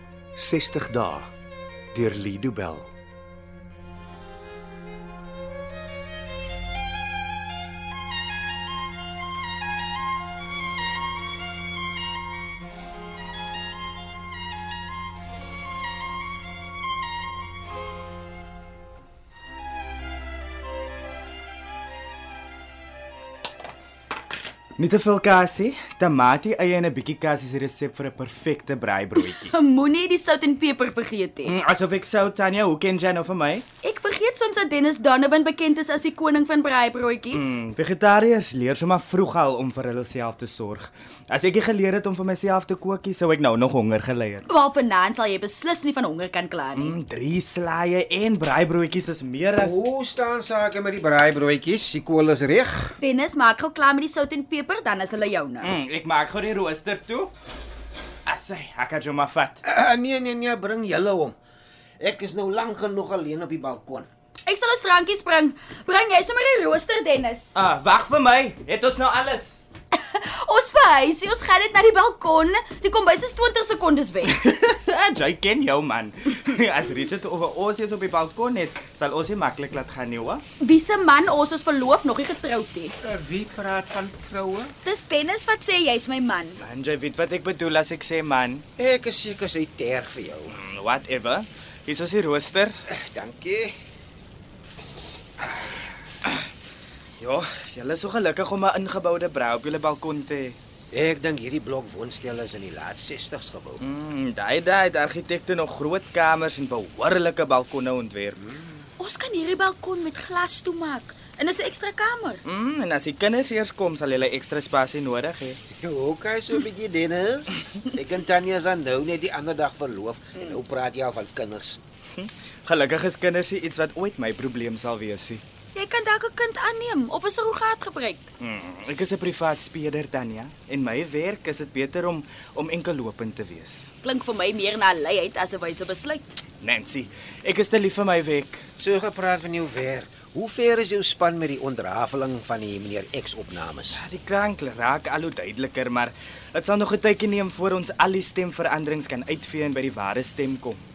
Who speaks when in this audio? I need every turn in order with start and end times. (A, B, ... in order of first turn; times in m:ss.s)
0:00.4-0:01.3 A
0:01.9-0:02.9 A
0:24.8-0:29.5 B
0:29.3-0:31.6 C
0:31.4-0:33.6 B
0:33.8-0:37.6 C
0:37.3-0:44.5 B
0:44.5-0:47.0 C
0:46.7-0:49.9 B
0:49.5-0:53.0 D
0:53.0-0:55.7 C
0:55.6-0:57.3 B
0:58.2-0:59.6 B
0:59.6-1:01.3 D
1:02.0-1:04.1 D
1:04.4-1:07.5 C
1:07.5-1:09.6 B
1:09.9-1:14.4 C
1:14.3-1:20.4 B
1:20.6-1:22.9 C
1:23.0-1:24.7 D
1:24.8-1:26.6 C
1:26.6-1:28.6 B
1:28.8-1:30.6 D
1:30.5-1:32.7 B
1:32.9-1:33.7 D
1:37.2-1:40.6 B
1:40.9-1:43.8 D
1:43.8-1:48.4 B
1:48.4-1:48.8 D
1:49.0-1:52.4 C
1:52.4-1:55.6 B
1:55.7-2:01.8 D
2:02.1-2:05.4 B
2:05.7-2:08.3 C
2:08.4-2:13.9 B
2:14.0-2:16.4 C
2:16.6-2:18.6 B
2:18.8-2:24.0 D
2:23.9-2:30.8 B